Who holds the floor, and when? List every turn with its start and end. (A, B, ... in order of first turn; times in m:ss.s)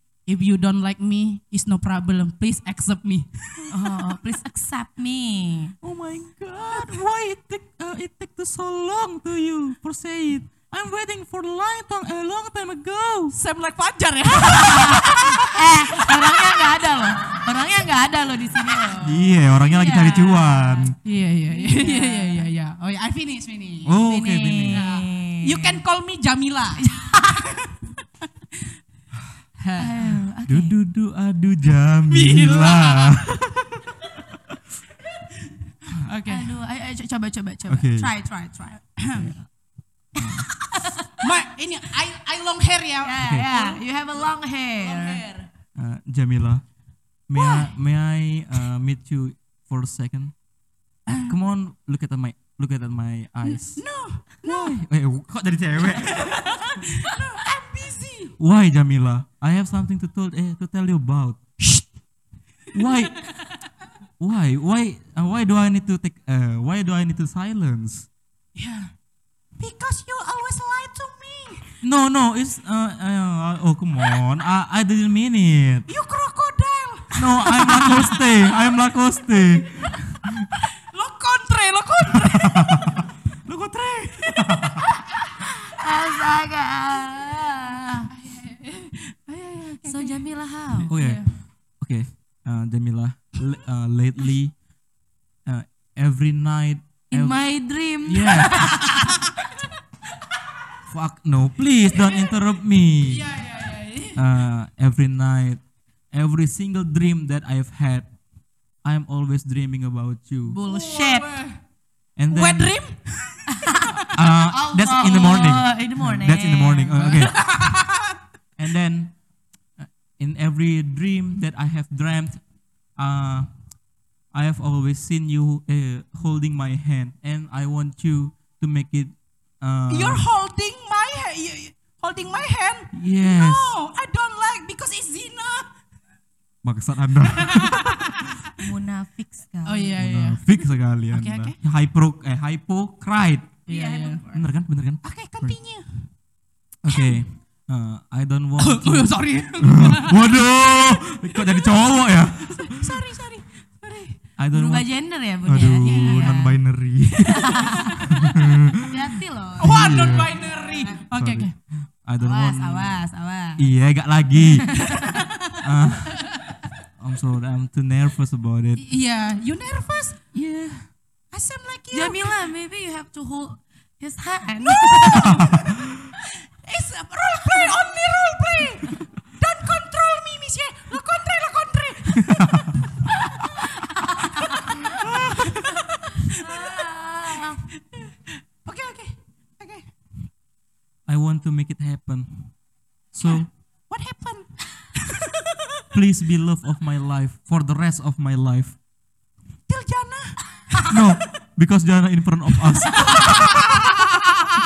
0:00.3-0:03.7 A
0:03.7-0:05.8 B
0:05.8-0:13.4 C
0:13.3-0:16.5 A
0:14.5-0:21.0 B
0:19.0-0:21.0 C
0:21.0-0:24.0 A
0:21.5-0:22.5 B
0:23.8-0:24.9 C
0:24.1-0:25.8 B
0:24.6-0:27.7 A
0:26.8-0:27.5 B
0:29.6-0:30.2 A
0:29.8-0:30.7 B
0:30.5-0:33.7 C
0:32.1-0:33.3 A
0:35.8-0:36.6 A
0:36.3-0:39.3 B
0:37.7-0:38.1 C
0:39.0-0:39.3 A
0:39.2-0:39.5 C
0:40.2-0:40.5 C
0:40.2-0:41.1 B
0:41.2-0:44.2 A
0:43.0-0:45.2 B
0:43.2-0:43.5 C
0:44.8-0:45.5 A
0:45.8-0:46.7 C
0:47.3-0:50.4 C
0:47.3-0:47.7 A
0:51.1-0:51.4 A
0:51.3-0:53.9 C
0:53.6-0:54.8 A
0:54.4-0:56.8 C
0:56.2-0:58.4 A
0:58.4-1:01.4 C
1:01.6-1:01.8 A
1:02.7-1:03.2 C
1:04.2-1:08.1 C
1:08.6-1:08.9 A
1:09.6-1:11.7 A
1:11.8-1:15.9 C
1:15.9-1:18.4 A
1:17.2-1:20.5 C
1:20.8-1:23.0 A
1:23.4-1:24.8 C
1:25.3-1:28.1 B
1:28.1-1:30.2 A
1:29.9-1:30.9 B
1:30.8-1:31.4 A
1:30.9-1:34.6 C
1:35.4-1:38.7 C
1:37.1-1:38.9 B
1:40.9-1:43.3 C
1:43.0-1:44.3 A
1:44.2-1:48.2 C
1:48.7-1:50.6 C
1:50.5-1:51.3 B
1:50.6-1:51.6 A
1:52.2-1:52.7 C
1:52.3-1:53.8 A
1:54.1-1:57.5 C
1:54.5-1:57.5 B
1:57.0-1:58.0 A
1:58.6-2:10.2 C
2:09.9-2:15.8 A
2:12.9-2:13.8 C
2:16.6-2:18.2 C
2:17.4-2:18.2 A
2:18.6-2:20.0 B
2:19.7-2:20.5 A
2:20.0-2:23.6 C
2:21.1-2:21.6 A
2:23.7-2:24.2 A
2:23.7-2:24.5 B
2:24.3-2:25.6 C
2:25.0-2:26.1 A
2:26.8-2:33.0 C
2:26.9-2:27.2 A
2:28.6-2:30.3 A
2:32.6-2:34.2 A
2:34.4-2:38.7 C
2:34.5-2:36.6 B
2:35.8-2:36.5 A
2:37.3-2:38.0 B
2:38.8-2:41.0 B
2:39.6-2:40.5 C
2:39.6-2:41.5 A
2:41.1-2:45.0 C
2:42.2-2:43.6 B
2:45.6-2:46.4 C
2:47.0-2:48.8 C
2:48.8-2:50.3 A
2:50.3-2:50.9 C
2:51.3-2:52.4 A
2:51.9-2:55.5 B
2:54.7-2:55.6 A
2:56.6-3:02.7 A
3:02.3-3:02.7 C
3:04.2-3:04.7 B
3:05.1-3:05.3 C
3:06.3-3:07.7 B
3:07.9-3:10.2 A
3:11.1-3:13.5 C
3:13.2-3:15.2 A
3:15.9-3:18.8 C
3:19.7-3:21.2 A
3:20.9-3:23.5 C
3:22.9-3:24.2 A